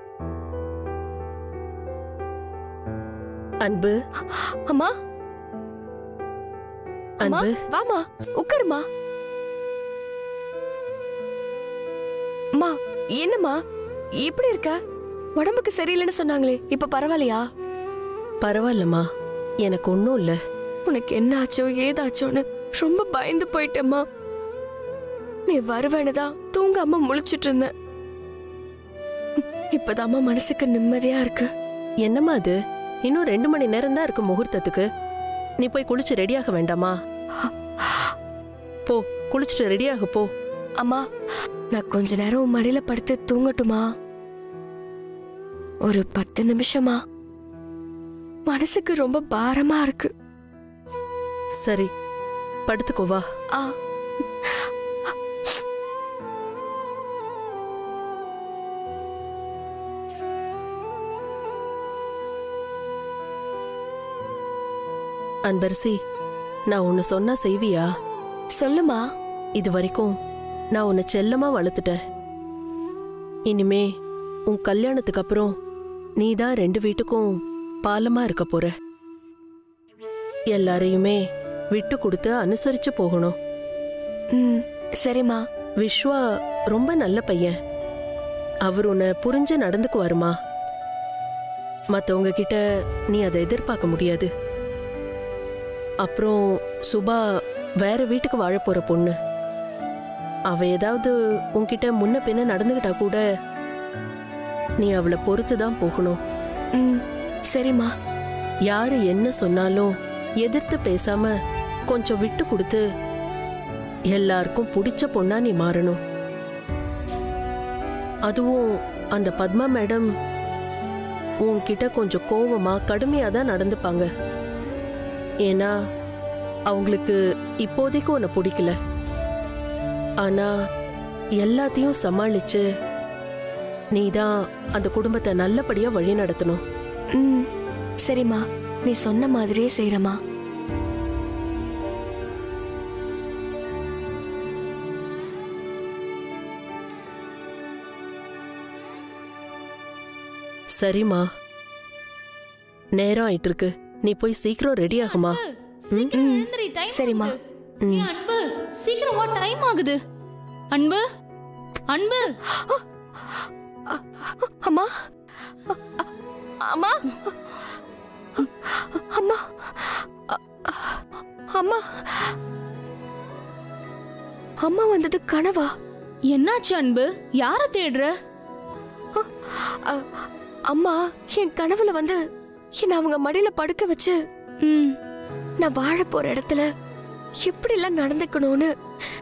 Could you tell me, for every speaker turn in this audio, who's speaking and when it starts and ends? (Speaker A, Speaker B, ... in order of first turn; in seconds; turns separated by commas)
Speaker A: 3.6-3.9, Speaker B: 4.3-4.9, Speaker A: 7.2-7.5, Speaker B: 7.2-8.8, Speaker B: 12.6-13.5, Speaker B: 14.2-14.7, Speaker B: 15.4-17.4, Speaker A: 18.4-19.0, Speaker A: 19.7-20.4, Speaker B: 20.9-24.0, Speaker B: 25.5-27.7, Speaker B: 29.7-31.5, Speaker A: 32.0-34.8, Speaker A: 35.6-36.9, Speaker B: 37.4-38.1, Speaker A: 38.9-40.3, Speaker B: 41.7-43.8, Speaker B: 45.9-47.0, Speaker B: 48.5-50.1, Speaker A: 52.7-53.2, Speaker B: 54.5-55.6, Speaker A: 65.5-65.9, Speaker A: 66.7-67.8, Speaker B: 68.5-69.0, Speaker A: 69.6-70.1, Speaker A: 70.8-71.9, Speaker A: 73.5-73.8, Speaker A: 74.5-75.5, Speaker A: 76.2-77.3, Speaker A: 77.8-78.7, Speaker A: 80.5-81.2, Speaker A: 81.8-83.3, Speaker B: 84.3-85.4, Speaker A: 85.8-86.2, Speaker A: 86.7-87.5, Speaker A: 88.7-90.3, Speaker A: 92.0-92.6, Speaker A: 93.1-94.3, Speaker A: 96.0-96.3, Speaker A: 96.9-97.2, Speaker A: 97.8-99.1, Speaker A: 100.5-103.2, Speaker A: 104.8-106.2, Speaker B: 106.8-107.9, Speaker A: 108.7-109.9, Speaker A: 110.4-111.3, Speaker A: 111.9-112.8, Speaker A: 114.1-116.0, Speaker A: 118.3-118.6, Speaker A: 119.2-120.1, Speaker A: 121.4-124.1, Speaker A: 126.7-128.7, Speaker A: 130.2-130.5, Speaker A: 131.4-132.6, Speaker A: 133.9-136.6, Speaker B: 137.1-137.4, Speaker B: 138.0-140.2, Speaker A: 150.8-151.2, Speaker A: 152.9-155.4, Speaker C: 154.9-160.0, Speaker B: 156.1-157.3, Speaker A: 157.8-158.1, Speaker C: 160.7-161.0, Speaker C: 161.9-162.2, Speaker B: 162.2-164.9, Speaker B: 165.7-166.1, Speaker B: 166.6-167.4, Speaker B: 168.3-172.3, Speaker B: 174.6-175.7, Speaker C: 176.3-178.1, Speaker B: 179.2-180.0, Speaker B: 180.7-182.2, Speaker B: 182.8-184.2, Speaker C: 184.7-184.9, Speaker B: 185.6-186.6, Speaker B: 187.4-188.7